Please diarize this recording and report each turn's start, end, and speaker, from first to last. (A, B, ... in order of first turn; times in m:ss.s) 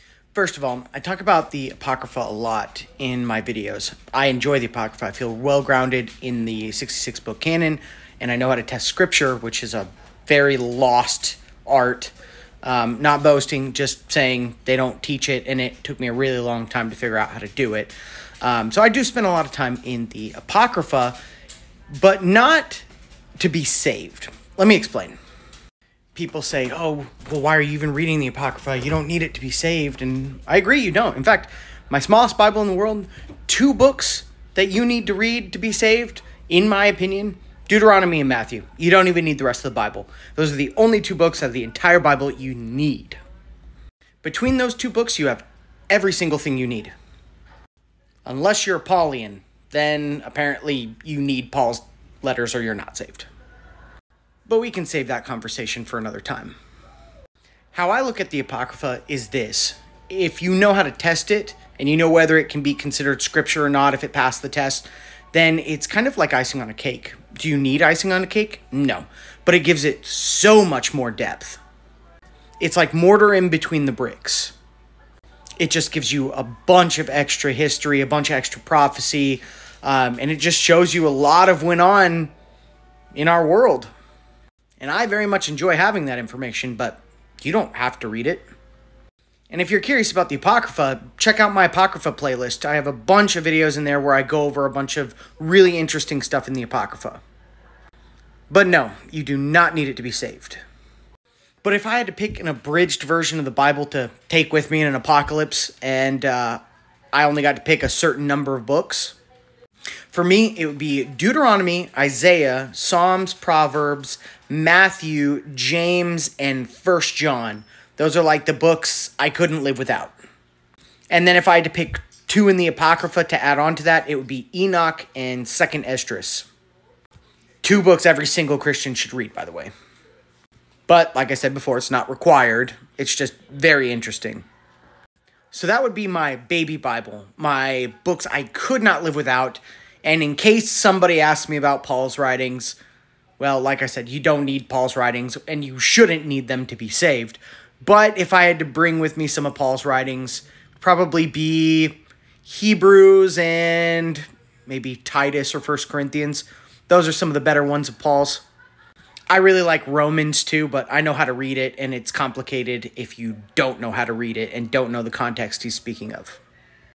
0:00.3-0:21.2 A
0:21.9-0:22.8 A
0:23.4-0:25.2 A
0:26.1-0:43.2 A
0:44.2-0:46.9 A
0:48.2-0:53.3 A
0:54.5-0:56.6 A
0:57.7-1:11.6 A
1:12.6-1:14.5 A
1:15.6-1:22.3 A
1:23.1-1:23.9 A
1:24.8-1:28.4 A
1:29.5-1:37.2 A
1:38.5-1:40.6 A
1:41.6-1:46.6 A
1:47.1-1:49.2 A
1:50.1-2:00.1 A
2:01.1-2:06.5 A
2:07.6-2:09.7 A
2:10.9-2:14.4 A
2:15.5-2:22.8 A
2:23.4-2:38.4 A
2:39.3-2:46.4 A